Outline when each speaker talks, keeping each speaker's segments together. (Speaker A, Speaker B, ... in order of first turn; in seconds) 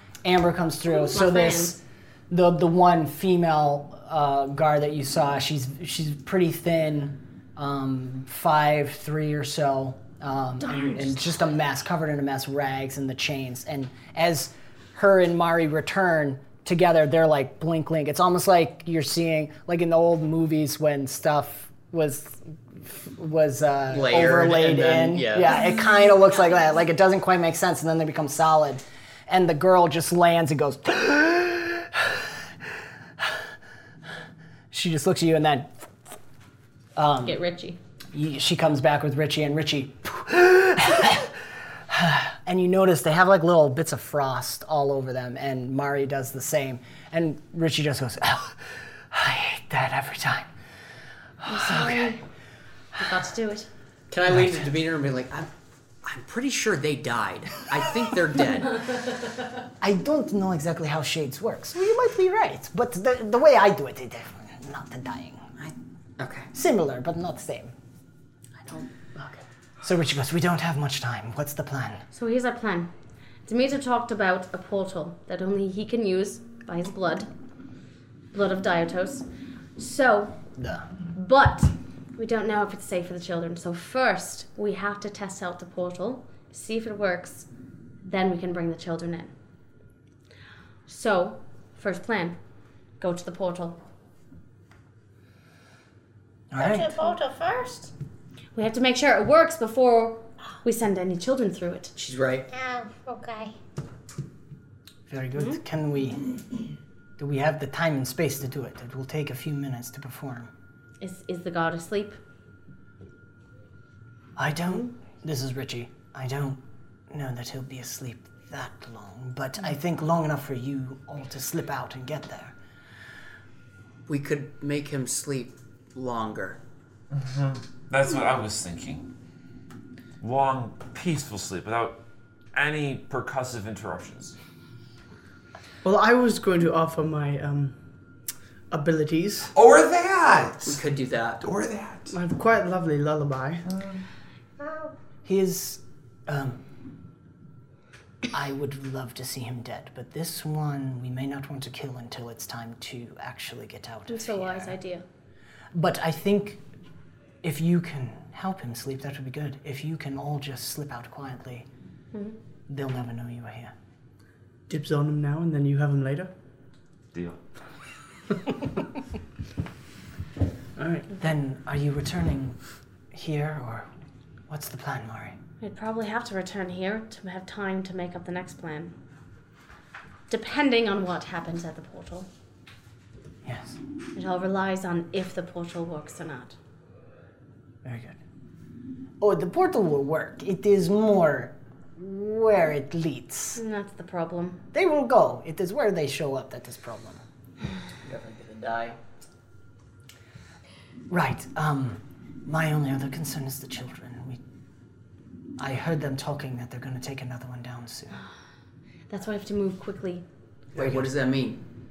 Speaker A: 0.2-32.2, 34.7-35.9, 37.0-37.4, 38.1-41.3, 41.9-50.5, 51.4-52.2, 59.8-65.5, 66.5-67.7, 69.8-72.0, 80.6-80.8, 96.5-97.0, 105.1-106.2, 107.2-110.5, 114.3-122.5, 145.2-146.6, 148.3-154.8, 155.7-156.6, 157.4-161.7, 162.7-163.7, 171.1-172.6, 173.1-173.9, 174.5-175.3, 183.4-183.8, 187.8-188.2, 189.2-193.6, 194.7-197.2, 201.1-204.4, 205.6-208.2, 210.8-211.1
Speaker B: 1.1-1.8, 10.6-11.5, 37.2-37.8, 51.5-52.2, 53.0-53.7, 72.1-72.9, 73.5-77.3, 78.3-79.2, 79.8-80.4, 81.1-87.5, 88.0-89.3, 90.9-92.3, 93.0-93.8, 98.5-101.9, 111.0-112.2, 154.1-155.0, 175.6-178.9, 180.3-182.3, 184.1-186.6, 193.5-194.6, 209.1-210.2
Speaker C: 23.9-25.6, 54.1-55.5, 56.0-58.7, 65.6-66.5, 68.7-69.4, 102.0-102.5, 124.1-126.6, 140.6-141.4, 198.0-198.9, 210.7-211.6
Speaker D: 96.5-97.9, 102.5-103.5, 144.6-144.9
Speaker E: 127.1-129.1, 130.2-132.0, 132.5-134.3, 139.5-140.7, 141.4-142.1, 143.7-144.0, 167.1-167.4
Speaker F: 135.8-137.8, 138.7-139.5, 142.1-143.6, 164.7-166.3, 170.8-171.0